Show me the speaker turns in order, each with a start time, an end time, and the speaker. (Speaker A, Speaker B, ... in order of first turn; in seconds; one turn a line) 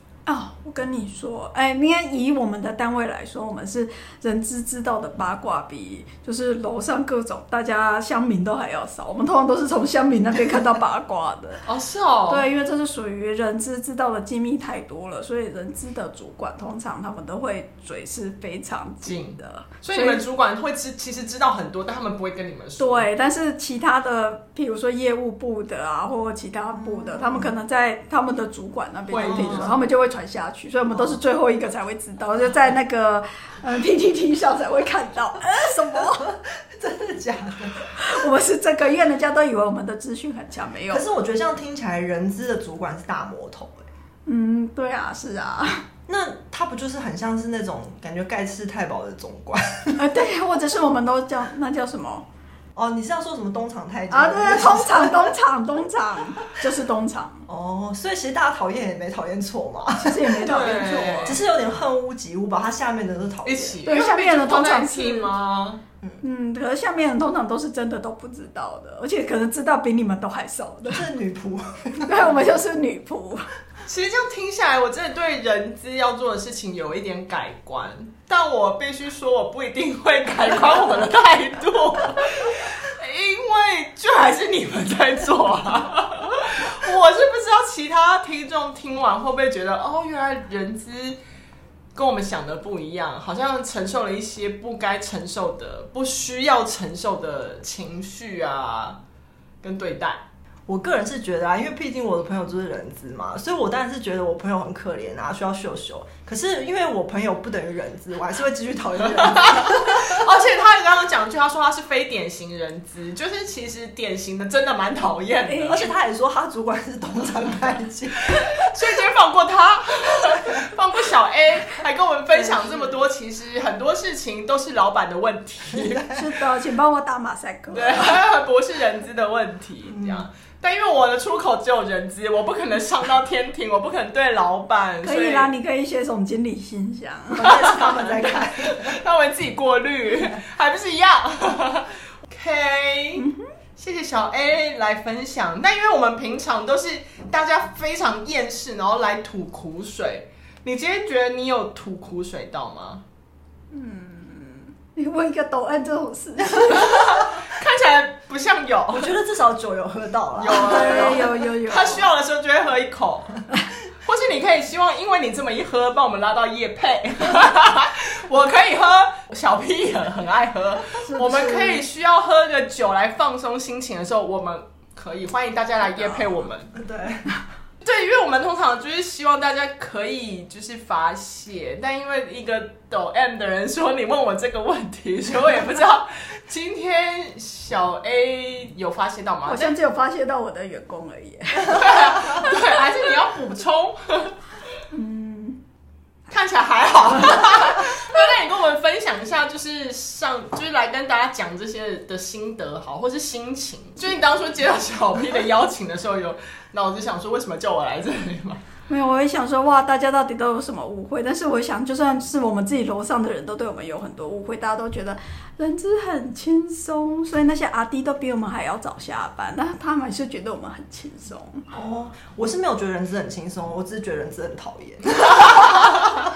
Speaker A: 0.2-11.6
Speaker B: 11.7-12.5
Speaker A: 12.3-20.2
Speaker B: 19.0-23.1
Speaker A: 22.8-36.3
Speaker C: 26.8-27.5
Speaker B: 29.1-29.8
Speaker C: 29.1-29.8
Speaker C: 36.1-37.8
Speaker A: 38.0-41.0
Speaker C: 40.9-43.8
Speaker A: 44.2-45.8
Speaker C: 46.1-50.0
Speaker A: 50.0-52.2
Speaker C: 52.7-55.3
Speaker A: 54.1-57.5
Speaker C: 57.5-63.9
Speaker A: 59.9-61.4
Speaker B: 60.4-61.4
Speaker B: 63.4-65.8
Speaker A: 63.9-65.3
Speaker A: 66.2-71.0
Speaker C: 70.9-72.3
Speaker A: 72.0-73.5
Speaker B: 73.8-91.2
Speaker B: 91.9-99.0
Speaker B: 99.6-100.2
Speaker C: 100.7-110.3
Speaker B: 109.2-115.9
Speaker A: 115.4-115.8
Speaker C: 115.7-118.3
Speaker B: 118.3-126.0
Speaker A: 122.5-122.9
Speaker C: 125.7-126.2
Speaker A: 126.1-128.2
Speaker B: 127.7-135.5
Speaker C: 129.9-130.3
Speaker A: 135.0-137.6
Speaker C: 137.3-139.0
Speaker B: 137.4-143.2
Speaker A: 143.2-143.5
Speaker B: 143.8-153.0
Speaker A: 153.7-157.2
Speaker B: 156.8-159.1
Speaker C: 158.9-161.3
Speaker B: 160.3-163.4
Speaker A: 160.6-162.0
Speaker B: 164.0-176.7
Speaker A: 171.0-171.8
Speaker C: 176.0-177.3
Speaker B: 177.8-189.8
Speaker A: 189.5-192.6
Speaker B: 191.7-194.3
Speaker A: 194.9-195.6
Speaker B: 196.3-208.6
Speaker A: 208.9-221.7
Speaker C: 221.7-226.2